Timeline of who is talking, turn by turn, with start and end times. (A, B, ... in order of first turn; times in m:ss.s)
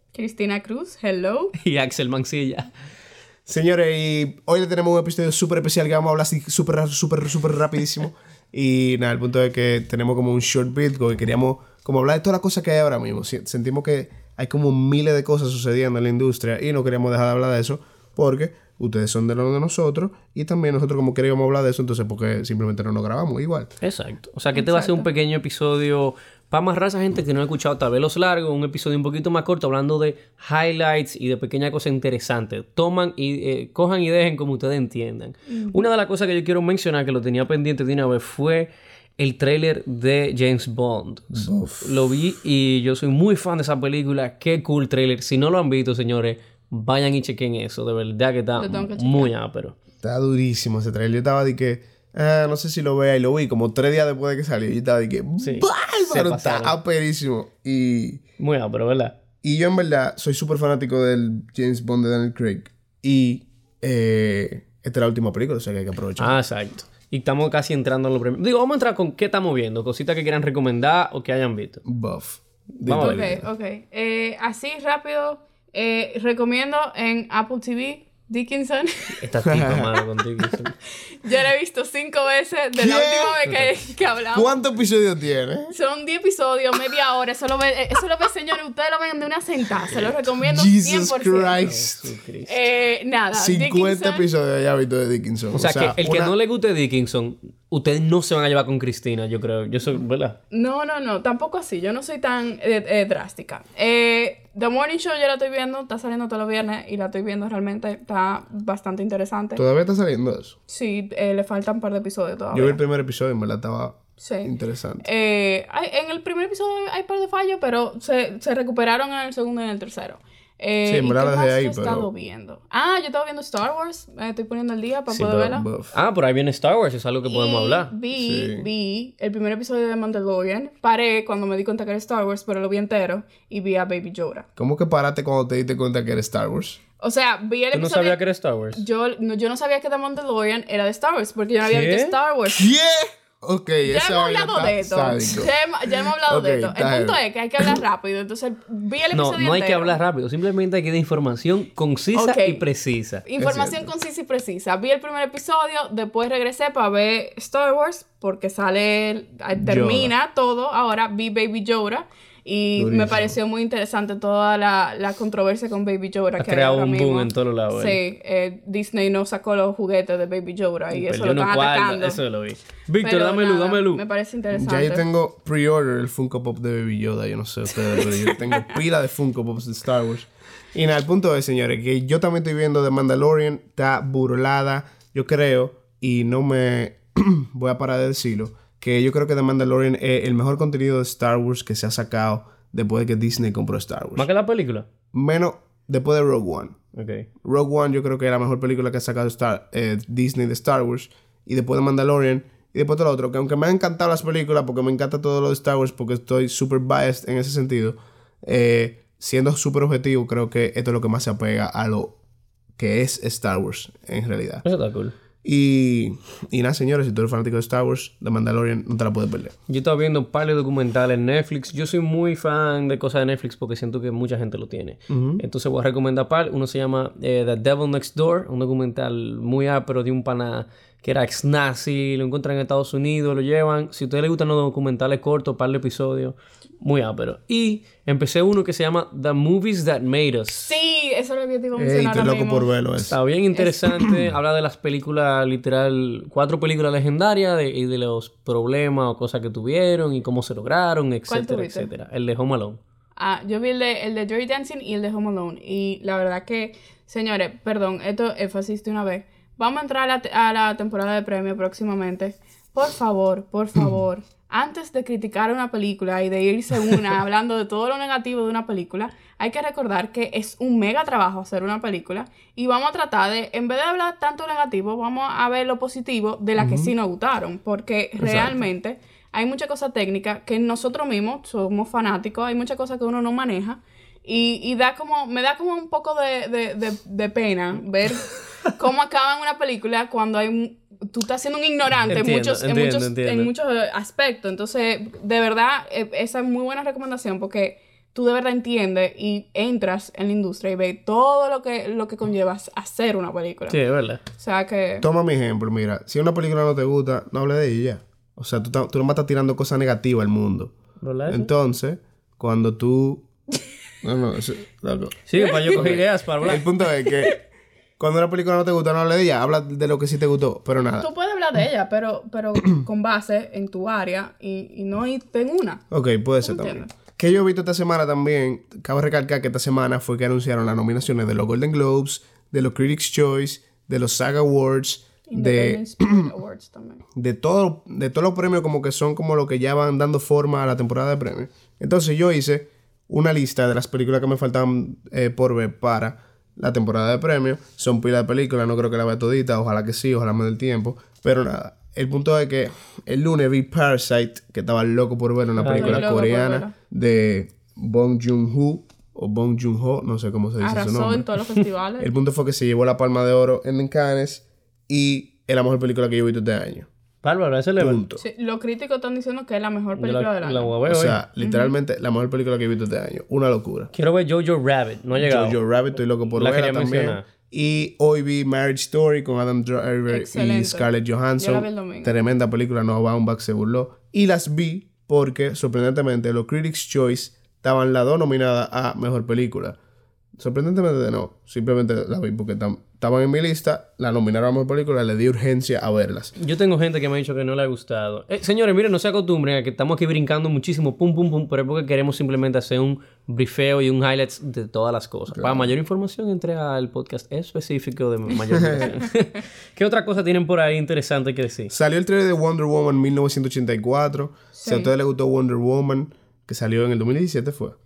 0:00.1-0:01.5 A
0:01.6-0:02.7 B
0:03.4-0:23.7 C
0:23.8-0:49.8 B
0:24.5-0:25.1 A
0:35.5-0:35.8 A
0:41.3-0:42.0 C
0:48.6-0:49.3 A
0:50.0-0:58.2 C
0:55.4-0:56.7 B
0:58.4-0:59.1 B
0:59.4-1:06.4 C
1:06.2-1:11.8 B
1:11.8-1:13.4 C
1:12.8-1:13.2 B
1:13.0-1:19.1 A
1:19.1-1:20.7 B
1:19.4-1:20.0 C
1:20.9-1:24.6 A
1:22.8-1:23.4 C
1:23.4-1:23.7 B
1:24.3-1:25.7 C
1:25.7-1:31.6 A
1:30.4-1:32.1 C
1:31.6-1:32.5 B
1:32.4-1:34.2 A
1:33.3-1:36.3 C
1:35.5-1:40.4 B
1:40.5-1:49.6 A
1:49.6-1:50.6 C
1:50.7-1:52.8 A
1:52.5-1:55.1 C
1:54.2-2:05.7 A
2:00.8-2:02.1 C
2:05.1-2:07.9 B
2:05.4-2:05.9 C
2:07.2-2:14.4 A
2:08.1-2:08.7 C
2:14.6-2:16.8 C
2:17.0-2:18.2 A
2:17.7-2:18.8 B
2:18.7-2:22.7 A
2:21.6-2:22.1 B
2:22.4-2:27.8 C
2:23.8-2:30.0 A
2:29.1-2:33.2 B
2:32.1-2:32.7 A
2:33.2-2:52.2 A
2:33.4-2:33.9 C
2:39.6-2:40.1 C
2:42.8-2:43.4 C
2:46.4-2:48.0 B
2:50.9-2:54.0 B
2:53.0-2:55.0 A
2:54.5-3:14.3 C
2:57.7-2:58.7 A
3:14.2-3:14.8 B
3:15.1-3:16.8 C
3:17.0-3:17.2 B
3:17.4-3:32.1 C
3:32.8-3:34.6 C
3:34.6-3:35.1 B
3:35.4-3:39.5 C
3:39.7-4:00.7 B
3:45.1-3:45.4 C
4:00.6-4:02.7 A
4:01.7-4:03.2 C
4:03.0-4:12.8 B
4:03.5-4:03.8 A
4:11.3-4:11.9 A
4:13.2-5:03.8 A
4:36.6-4:36.9 C
4:38.2-4:38.6 C
4:52.1-4:53.5 B
5:03.7-5:04.2 B
5:04.4-5:05.0 A
5:05.0-5:10.7 C
5:11.0-5:11.5 B
5:11.3-5:13.2 C
5:14.0-5:17.4 C
5:15.3-5:16.6 B
5:15.4-5:15.9 A
5:16.5-5:17.3 A
5:18.0-5:21.1 C
5:20.9-5:25.8 A
5:25.9-5:36.3 C
5:26.4-5:26.9 A
5:35.3-5:37.0 A
5:37.2-6:01.2 C
5:55.6-5:56.1 B
5:55.7-5:56.7 A
6:00.6-6:02.1 A
6:02.0-6:06.9 C
6:07.2-6:08.0 B
6:07.8-6:08.2 C
6:08.2-6:10.7 A
6:09.9-6:11.2 B
6:10.9-6:13.9 C
6:11.4-6:11.7 A
6:13.9-6:15.6 B
6:15.2-6:29.8 C
6:16.3-6:17.2 B
6:20.1-6:22.2 A
6:30.4-6:36.3 C
6:36.4-6:51.7 B
6:45.3-6:45.7 C
6:48.5-6:48.9 C
6:51.7-6:57.8 C
6:54.5-6:54.9 A